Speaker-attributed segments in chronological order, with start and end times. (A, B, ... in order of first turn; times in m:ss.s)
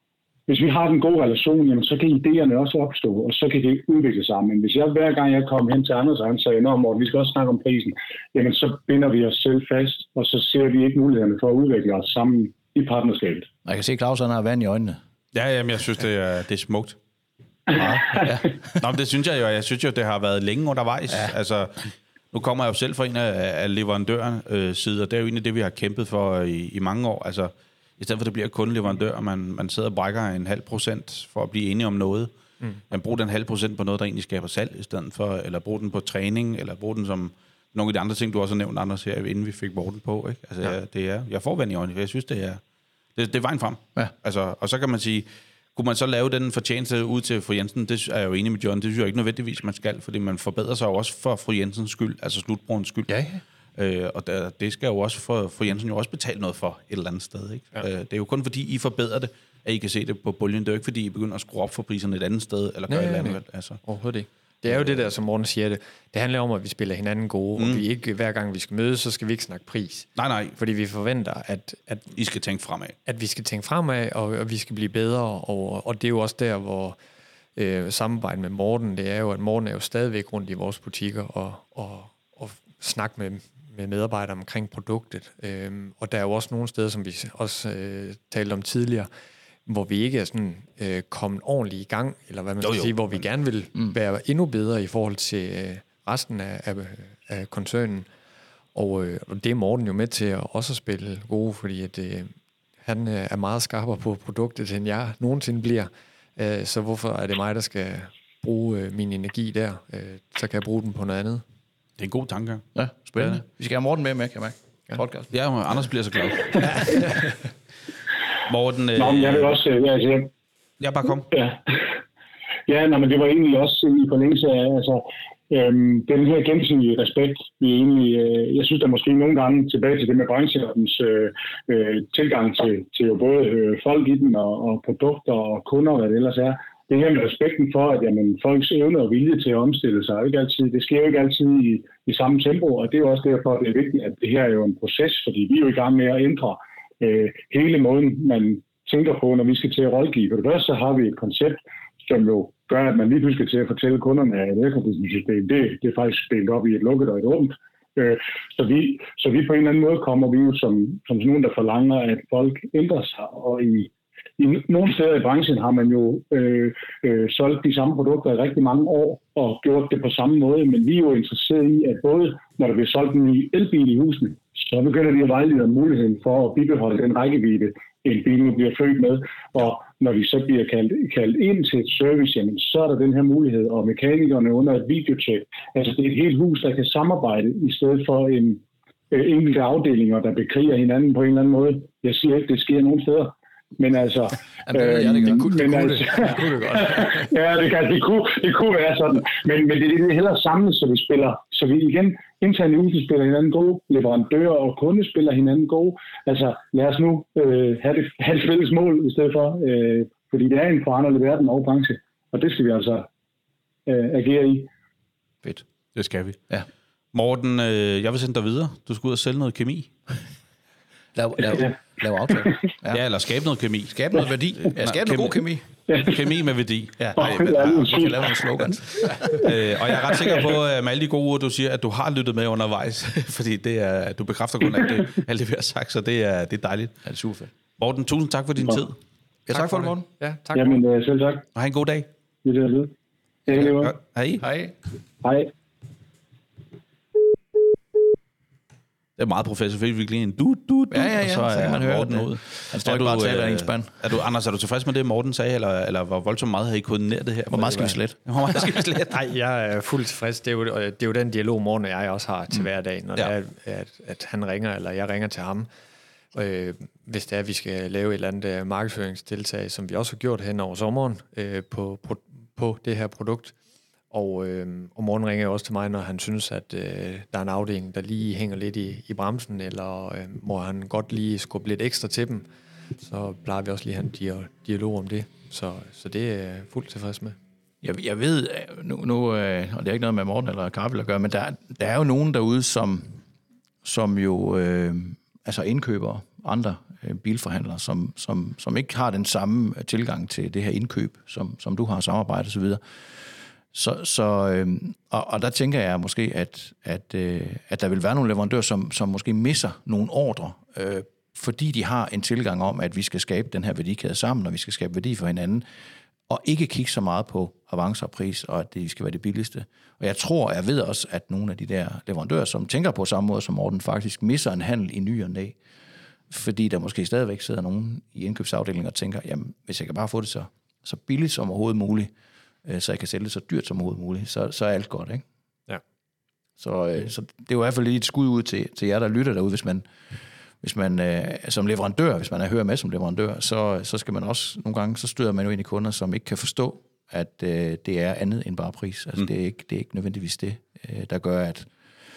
0:00.5-0:13.5 A
0:13.6-0:15.0 B
0:15.3-0:17.0 C
0:17.7-0:18.6 B
0:17.8-0:32.3 C
0:32.9-0:42.6 C
0:43.2-0:53.2 C
0:53.1-0:53.4 B
0:53.8-1:03.8 C
1:02.9-1:12.2 D
1:07.6-1:07.8 C
1:10.2-1:10.6 C
1:12.2-1:13.0 C
1:13.1-1:17.0 D
1:17.6-1:29.1 D
1:29.7-1:38.1 D
1:32.6-1:33.0 C
1:38.7-1:51.4 D
1:52.0-1:52.7 C
1:52.8-1:55.3 B
1:55.3-1:57.0 C
1:58.5-1:59.6 C
1:59.0-2:00.3 A
2:00.8-2:01.3 C
2:01.3-2:01.9 A
2:02.7-3:33.1 A
3:14.6-3:16.5 B
3:16.2-3:17.2 D
3:33.9-3:34.7 A
3:36.0-3:36.4 C
3:37.1-3:39.9 C
3:41.2-3:43.0 B
3:42.9-3:48.0 C
3:43.9-3:45.6 B
3:45.9-3:46.2 A
3:47.0-3:49.5 B
3:47.2-3:48.8 A
3:49.2-3:57.0 C
3:57.0-3:57.5 B
3:57.8-3:59.0 C
3:59.5-4:00.1 B
3:59.5-4:00.8 D
4:00.5-4:01.5 A
4:01.6-4:02.1 C
4:02.4-4:02.9 A
4:03.5-4:03.9 A
4:03.5-4:04.4 C
4:04.4-4:04.8 B
4:05.2-4:05.5 A
4:09.2-4:19.2 C
4:10.9-4:14.0 B
4:17.5-4:18.8 B
4:19.2-4:25.7 D
4:26.3-4:33.6 D
4:34.1-4:42.5 D
4:43.0-4:47.4 D
4:47.8-4:53.2 B
4:53.8-5:15.6 B
5:16.3-5:25.6 B
5:26.3-5:32.1 B
5:32.6-5:35.2 B
5:36.6-5:39.8 B
5:40.6-5:51.7 B